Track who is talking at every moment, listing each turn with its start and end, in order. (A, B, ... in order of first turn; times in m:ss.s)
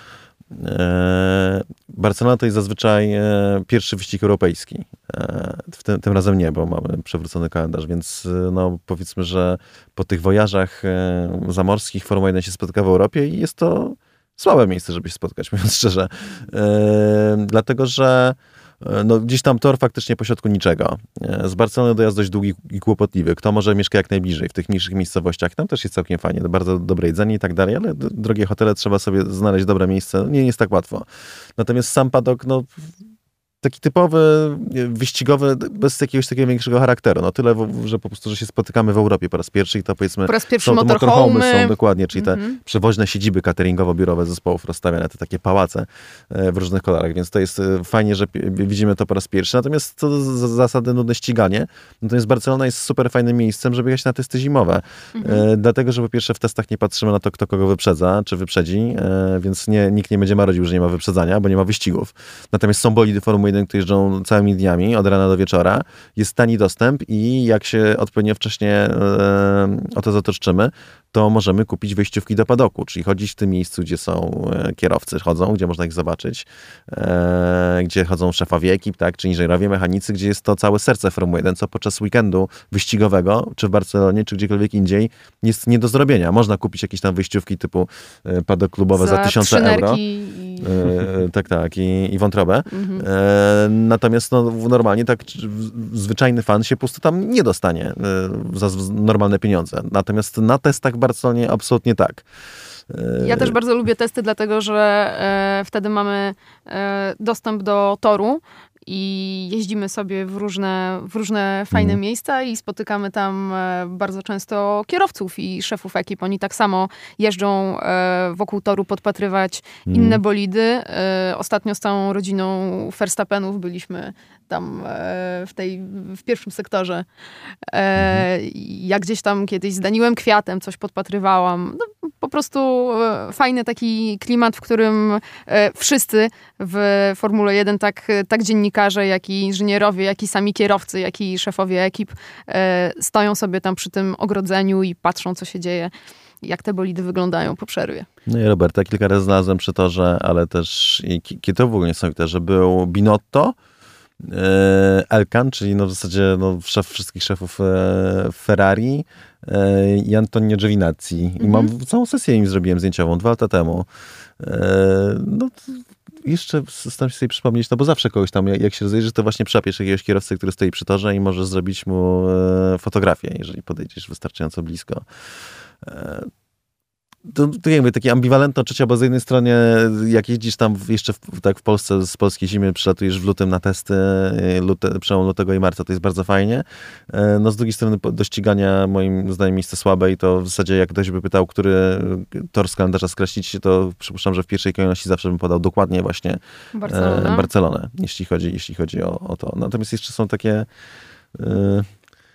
0:00.5-0:31.0 A
0:31.6-0:32.7 A
0:33.6-1:30.0 A
0:40.3-0:42.6 B
0:55.1-0:55.4 B
1:28.9-1:30.9 B
1:30.6-1:42.2 A
1:32.7-1:33.0 B
1:42.9-1:43.6 A
1:43.2-2:07.0 B
1:51.7-1:52.0 A
1:59.9-2:00.2 A
2:07.7-2:25.9 B
2:08.0-2:08.2 A
2:26.4-2:28.1 B
2:28.3-2:33.6 A
2:34.2-2:43.9 A
2:41.4-2:41.7 B
2:44.4-2:55.0 A
2:55.8-2:56.3 A
2:57.3-3:20.7 A
3:16.7-3:17.5 B
3:21.3-3:21.9 A